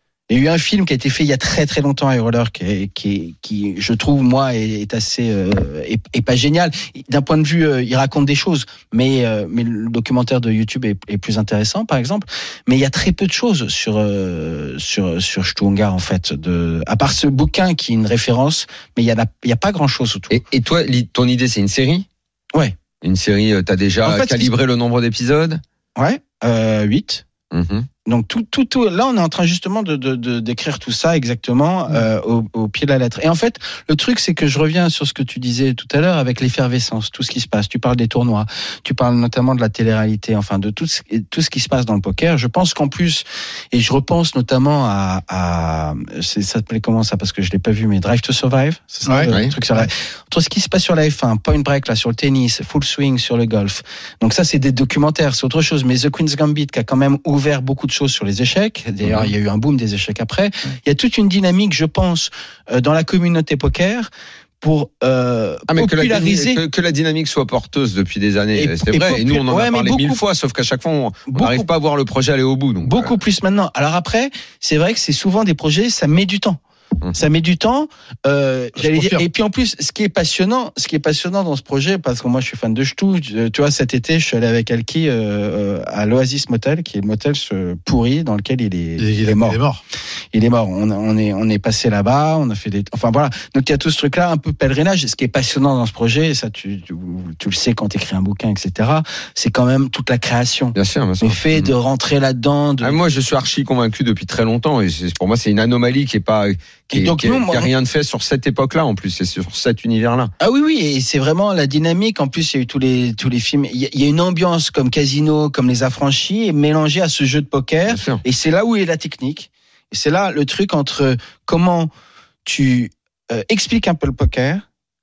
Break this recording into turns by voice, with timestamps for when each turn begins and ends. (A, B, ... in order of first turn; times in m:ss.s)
0:00.3-0:20.4 A
0:20.3-0:22.1 B
0:23.0-0:25.6 B
0:24.0-0:24.5 A
0:26.0-0:27.2 A
0:27.5-0:27.9 B
0:28.0-1:04.1 A
0:49.0-0:49.9 C
0:59.0-0:59.3 B
1:04.6-1:06.6 A
1:05.7-1:13.1 B
1:08.5-1:10.2 A
1:11.3-1:11.7 A
1:12.8-1:16.6 A
1:17.1-1:29.6 A
1:18.8-1:19.2 C
1:29.0-1:29.8 C
1:30.3-1:43.0 A
1:40.7-1:41.7 B
1:42.8-1:50.3 B
1:46.9-1:47.7 A
1:50.4-2:01.9 A
1:57.9-1:58.2 B
2:02.4-2:04.6 A